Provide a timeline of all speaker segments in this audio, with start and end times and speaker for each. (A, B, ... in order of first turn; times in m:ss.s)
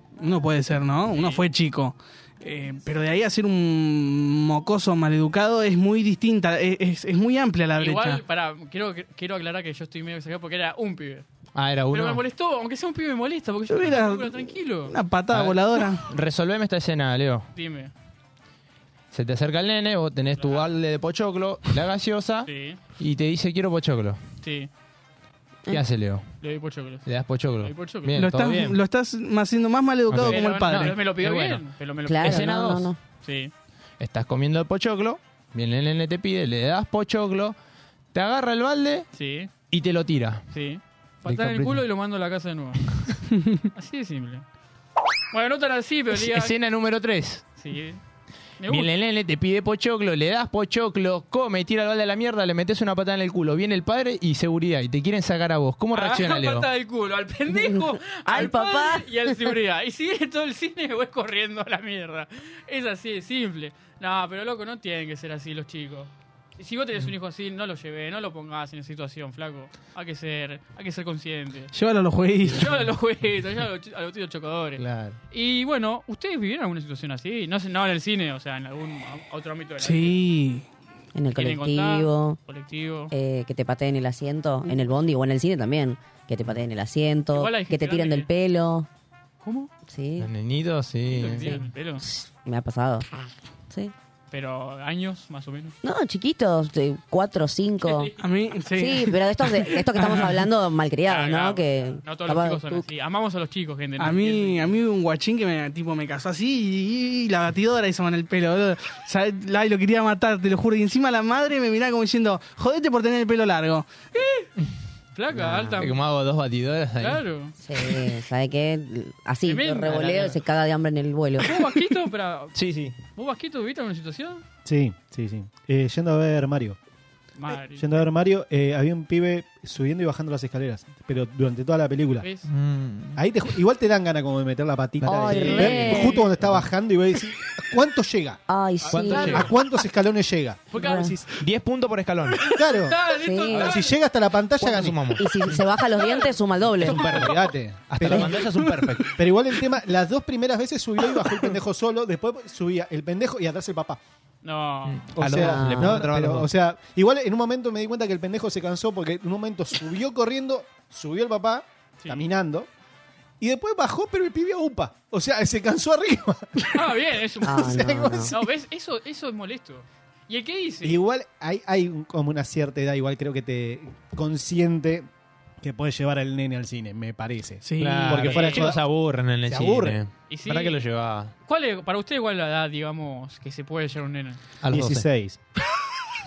0:00.2-0:08.2 A
0:01.1-0:01.5 B
0:07.8-0:11.2 B
0:11.6-0:12.2 C
0:11.9-0:15.0 B
0:13.7-0:16.1 A
0:15.3-0:17.5 C
0:17.5-0:17.9 B
0:19.1-0:24.2 C
0:20.4-0:20.7 B
0:22.4-0:22.8 B
0:24.4-0:24.7 B
0:25.7-0:26.4 C
0:26.4-0:28.2 B
0:27.0-0:28.8 C
0:28.2-0:31.0 A
0:30.1-0:31.6 C
0:30.2-0:32.6 B
0:32.1-0:33.0 D
0:32.2-0:32.9 C
0:33.2-0:33.5 B
0:34.0-0:37.6 C
0:38.1-0:39.1 C
0:39.1-0:39.5 B
0:39.7-0:40.5 C
0:40.5-0:42.9 B
0:41.2-0:41.9 C
0:43.4-0:43.6 A
0:43.7-0:44.4 B
0:45.3-0:46.5 B
0:46.1-0:47.5 C
0:47.6-0:48.0 B
0:48.6-0:48.9 B
0:48.7-0:56.7 C
0:55.9-1:11.7 B
0:57.5-0:59.5 D
1:11.7-1:12.8 A
1:12.4-1:20.2 B
1:14.8-1:15.2 C
1:19.8-1:20.7 A
1:21.2-1:22.4 D
1:21.4-1:23.1 B
1:23.1-1:28.9 D
1:27.3-1:28.3 B
1:29.4-1:29.7 B
1:29.9-1:30.3 D
1:30.2-1:31.6 C
1:31.1-1:32.1 B
1:31.4-1:33.1 D
1:34.3-1:35.8 B
1:35.8-1:38.1 D
1:37.8-1:38.2 B
1:38.2-1:40.3 A
1:38.7-1:42.9 D
1:41.1-1:44.8 B
1:44.0-1:53.9 A
1:54.1-1:54.5 B
1:55.2-1:56.0 B
1:55.4-1:55.8 D
1:55.8-1:57.2 C
1:57.0-1:57.5 B
1:57.6-2:01.6 D
1:59.5-2:00.4 B
1:59.9-2:00.3 C
2:01.4-2:02.6 B
2:02.6-2:03.0 C
2:03.2-2:04.4 B
2:04.6-2:06.8 E
2:07.4-2:08.1 B
2:07.7-2:12.3 E
2:12.2-2:12.5 B
2:12.5-2:13.2 C
2:13.2-2:18.4 E
2:15.0-2:16.7 C
2:15.0-2:16.2 D
2:15.6-2:16.2 B
2:18.5-2:19.5 D
2:18.8-2:19.5 B
2:18.9-2:19.5 C
2:19.3-2:21.3 E
2:20.7-2:21.2 B
2:20.8-2:21.2 D
2:21.4-2:22.4 C
2:22.4-2:24.0 B
2:22.4-2:25.1 E
2:23.2-2:23.8 D
2:24.6-2:25.6 C
2:25.1-2:27.1 D
2:25.9-2:27.5 B
2:26.8-2:29.2 C
2:26.9-2:34.0 E
2:34.4-2:35.0 B
2:34.9-2:36.5 C
2:35.2-2:42.7 E
2:35.3-2:36.1 D
2:43.4-2:46.9 E
2:46.7-2:51.0 B
2:47.4-2:48.3 D
2:47.4-2:48.5 E
2:50.8-2:55.1 E
2:55.6-2:58.8 E
2:57.6-2:58.2 A
2:57.8-3:01.3 C
2:58.2-2:58.7 B
2:59.5-3:00.0 E
3:00.3-3:00.8 B
3:01.5-3:04.4 B
3:04.6-3:05.1 C
3:04.7-3:05.4 E